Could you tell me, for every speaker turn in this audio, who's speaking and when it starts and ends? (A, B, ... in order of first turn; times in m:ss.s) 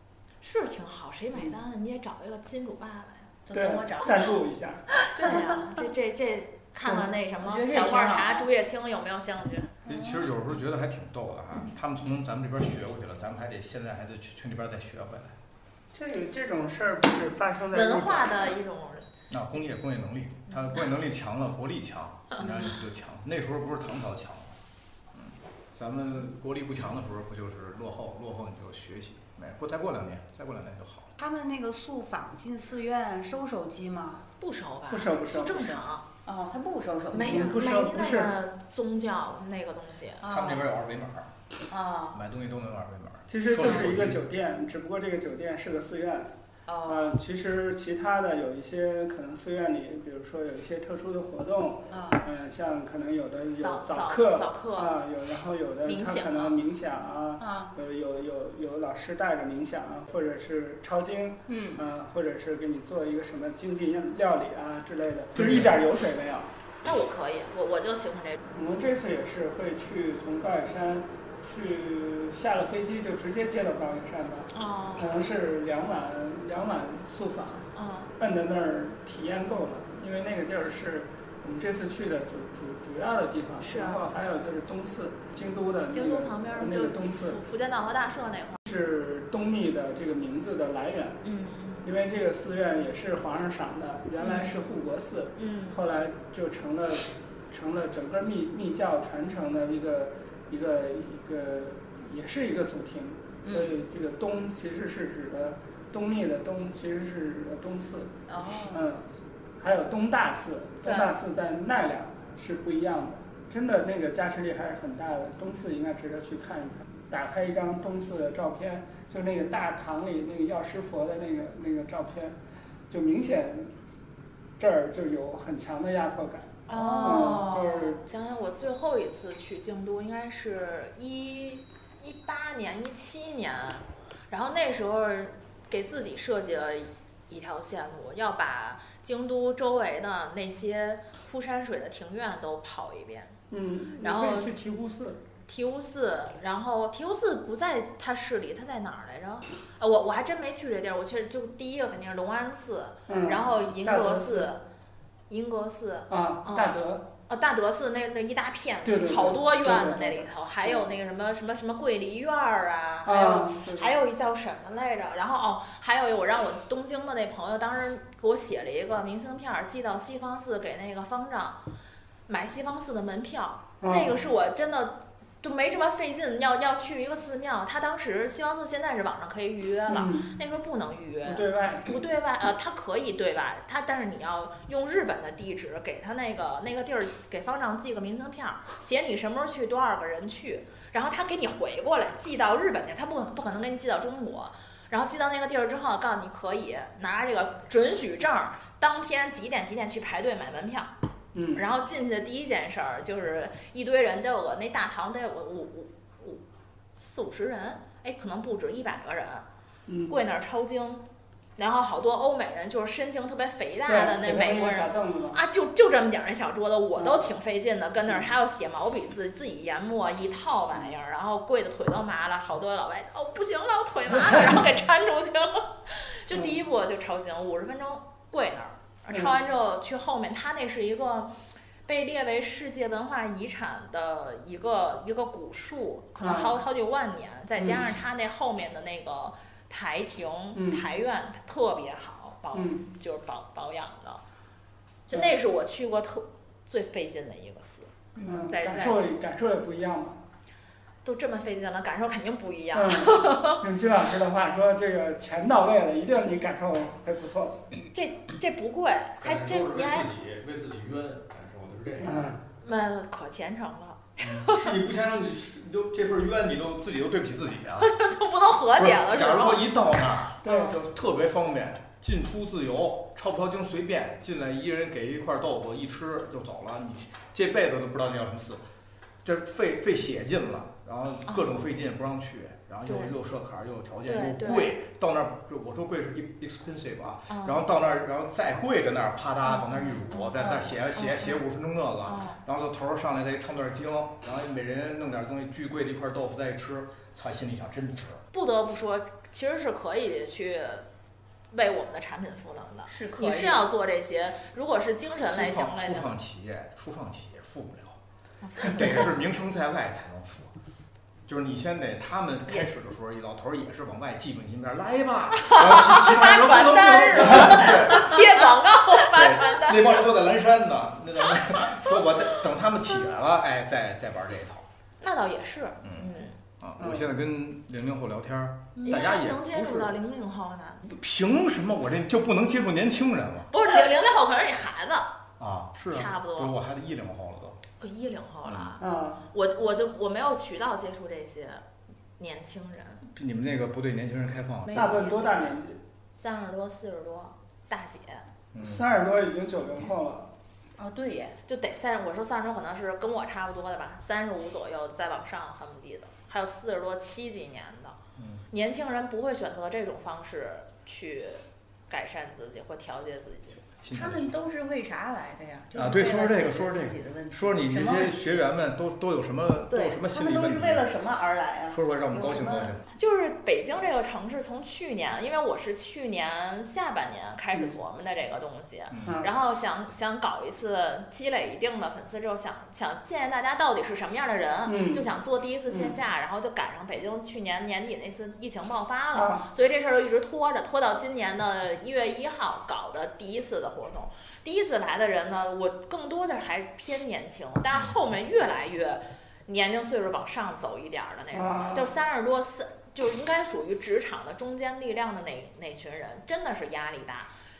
0:00.4-0:03.3 A
0:03.4-0:04.3 B
0:03.5-0:04.8 C
0:05.0-0:05.8 B
0:05.1-0:09.7 A
0:06.8-0:08.5 B
0:09.8-0:10.3 B
0:09.8-0:15.4 D
0:15.9-0:18.4 C
0:17.7-0:19.1 A
0:19.3-0:24.6 D
0:25.1-0:31.1 D
0:31.2-0:34.2 B
0:34.4-0:36.0 A
0:34.9-0:35.8 C
0:36.2-0:37.6 B
0:37.1-0:40.2 A
0:37.2-0:38.3 C
0:40.2-0:40.7 B
0:40.2-0:41.3 D
0:41.7-0:42.2 B
0:42.1-0:44.2 D
0:43.3-0:46.3 C
0:46.7-0:47.2 B
0:46.8-1:06.5 C
0:51.9-0:52.2 B
0:53.6-0:54.9 A
0:55.8-0:56.6 A
0:57.4-0:57.7 B
1:01.5-1:01.8 B
1:05.4-1:05.7 D
1:06.8-1:08.4 A
1:08.5-1:27.4 C
1:14.5-1:15.2 A
1:17.7-1:18.1 A
1:23.6-1:24.0 A
1:25.9-1:28.6 A
1:28.6-1:31.2 C
1:31.2-1:31.8 A
1:31.8-1:48.2 C
1:34.2-1:34.5 A
1:35.4-1:35.8 A
1:43.4-1:43.7 B
1:48.3-1:48.8 B
1:48.7-1:49.0 C
1:49.6-2:02.4 C
1:50.8-1:51.1 A
2:02.9-2:03.7 C
2:04.6-2:08.0 C
2:06.7-2:23.3 A
2:06.7-2:07.4 B
2:23.5-2:25.2 C
2:24.0-2:24.5 A
2:25.5-2:34.6 A
2:33.1-2:34.5 C
2:35.3-2:51.6 A
2:36.1-2:37.0 C
2:38.8-2:40.9 C
2:43.0-2:43.9 C
2:52.3-3:20.9 A
2:53.8-2:54.2 C
2:59.9-3:00.3 C
3:01.2-3:02.0 C
3:21.3-3:21.6 C
3:21.5-3:26.4 A
3:27.0-3:29.4 A
3:29.9-3:30.2 C
3:30.1-3:31.0 A
3:31.6-3:51.3 A
3:33.9-3:35.4 C
3:37.0-3:37.3 C
3:44.3-3:44.6 C
3:51.8-4:04.2 A
3:56.2-3:56.6 C
3:57.6-3:57.9 C
4:00.5-4:00.8 C
4:02.5-4:02.8 C
4:05.1-4:07.9 A
4:08.2-4:10.2 C
4:08.5-4:09.1 A
4:11.0-4:13.6 A
4:12.7-4:17.6 C
4:17.9-4:20.1 A
4:19.2-4:22.3 D
4:22.0-4:22.4 C
4:22.6-4:24.7 A
4:24.2-4:27.9 D
4:27.8-4:29.7 A
4:28.7-4:38.6 D
4:30.4-4:30.7 A
4:30.4-4:30.8 C
4:39.2-4:58.2 D
4:42.8-4:43.1 A
4:44.0-4:44.7 A
4:47.3-4:47.6 A
4:49.5-4:51.4 A
4:50.4-4:50.7 B
4:52.0-4:52.4 A
4:58.3-5:00.9 A
5:01.5-5:06.1 A
5:02.9-5:03.6 B
5:05.1-5:08.0 D
5:08.4-5:09.1 A
5:08.6-5:10.5 D
5:11.2-5:18.4 D
5:15.4-5:20.1 A
5:19.0-5:24.6 D
5:25.0-5:26.3 A
5:25.8-5:29.9 D
5:26.8-5:27.1 C
5:28.8-5:29.0 B
5:28.8-5:30.8 A
5:30.8-5:33.5 D
5:33.5-5:35.1 A
5:35.4-5:37.6 D
5:35.9-5:36.5 A
5:37.8-5:41.6 A
5:38.4-5:38.8 D
5:38.8-5:39.2 C
5:42.2-5:43.0 A
5:43.1-5:45.1 D
5:44.6-5:45.6 A
5:44.7-5:45.8 C
5:46.1-5:48.2 A
5:48.5-5:48.8 D
5:48.6-5:50.3 C
5:50.8-5:51.4 B
5:51.4-5:58.0 A
5:58.2-5:58.4 D
5:58.5-6:03.6 A
6:03.8-6:04.3 D
6:03.9-6:08.5 B
6:05.7-6:10.9 D
6:09.7-6:12.8 B
6:11.7-6:12.8 D
6:12.9-6:47.3 A
6:18.9-6:19.2 D
6:19.0-6:19.3 C
6:24.6-6:25.1 C
6:25.7-6:26.0 C
6:29.1-6:29.5 C
6:41.3-6:41.9 C